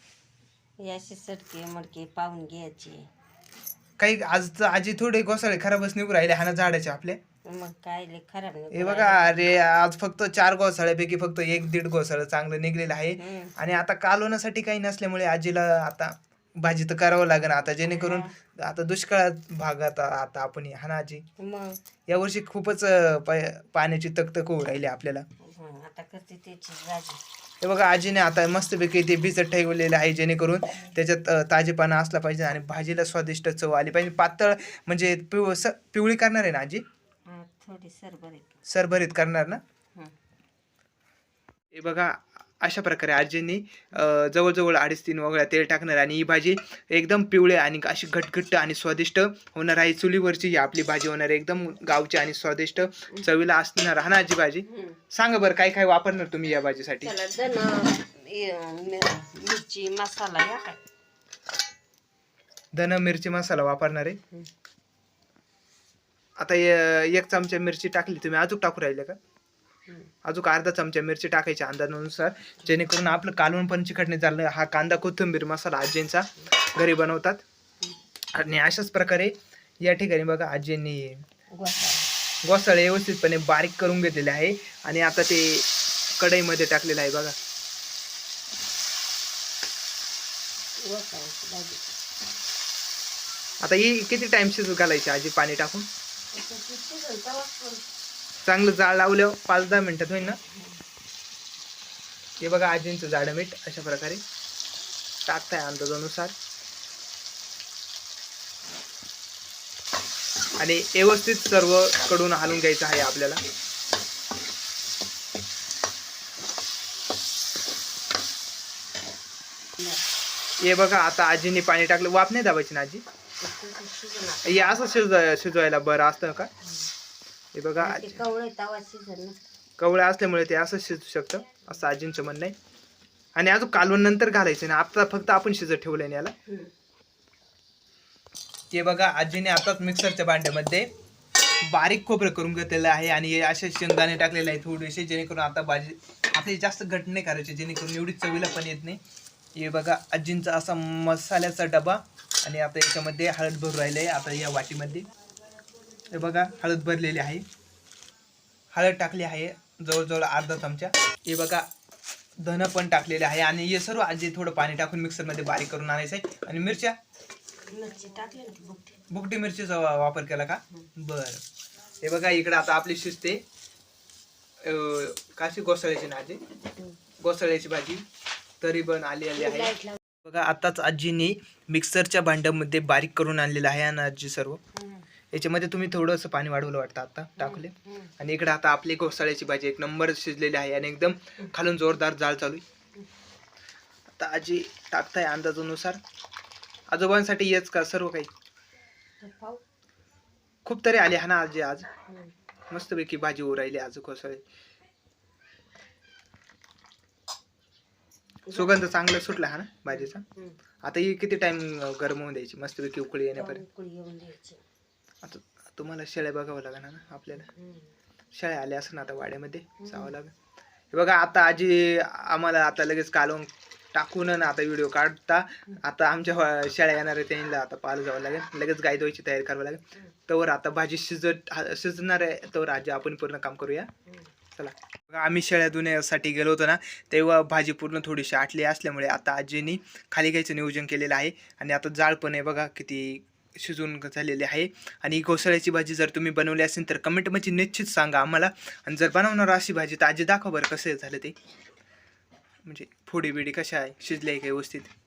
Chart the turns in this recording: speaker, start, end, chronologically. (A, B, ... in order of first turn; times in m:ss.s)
0:00.8-0:03.1 A
0:04.0-0:07.2 B
0:07.4-0:09.4 A
0:08.7-0:21.2 B
0:13.2-0:13.6 A
0:17.9-0:18.3 A
0:21.4-0:21.8 A
0:22.1-0:25.2 B
0:25.4-0:27.2 A
0:27.6-0:36.8 B
0:37.2-0:38.6 A
0:38.7-0:39.6 B
0:41.7-0:57.1 B
0:54.6-0:55.0 A
0:57.0-1:00.8 A
1:02.7-1:04.2 B
1:06.4-1:09.2 B
1:10.2-1:17.4 B
1:18.3-1:21.2 B
1:21.5-1:22.1 A
1:22.4-1:25.7 B
1:26.2-1:27.3 B
1:30.8-1:32.0 A
1:33.6-1:35.9 B
1:36.3-1:37.8 A
1:38.4-1:40.4 B
1:40.5-1:40.8 A
1:42.4-1:44.2 B
1:45.2-1:46.3 B
1:50.6-1:53.4 B
1:59.8-2:00.0 A
2:00.6-2:03.0 B
2:03.4-2:04.8 A
2:04.4-2:06.5 B
2:07.5-2:08.2 B
2:07.8-2:09.4 A
2:09.8-2:12.5 B
2:13.4-2:16.3 B
2:18.7-2:20.9 B
2:21.7-2:29.0 B
2:29.6-2:35.1 B
2:36.1-2:37.4 B
2:38.7-2:41.7 B
2:42.4-2:47.0 B
2:47.7-2:49.0 A
2:49.1-2:51.4 B
2:52.0-2:53.4 B
2:54.6-2:56.4 B
2:57.2-2:58.0 B
2:58.6-3:04.6 B
2:59.4-3:00.0 A
3:04.7-3:05.0 A
3:05.3-3:12.6 B
3:07.4-3:08.1 A
3:14.2-3:16.0 B
3:16.9-3:18.3 B
3:19.2-3:19.6 A
3:20.6-3:21.9 B
3:22.7-3:24.4 B
3:28.5-3:28.7 A
3:28.5-3:30.2 B
3:29.9-3:30.6 A
3:30.8-3:33.6 B
3:33.3-3:34.6 A
3:35.2-3:37.5 B
3:37.5-3:37.9 A
3:38.3-3:40.3 B
3:39.8-3:40.1 A
3:40.9-3:53.9 B
3:54.5-4:11.3 B
4:12.6-4:14.9 B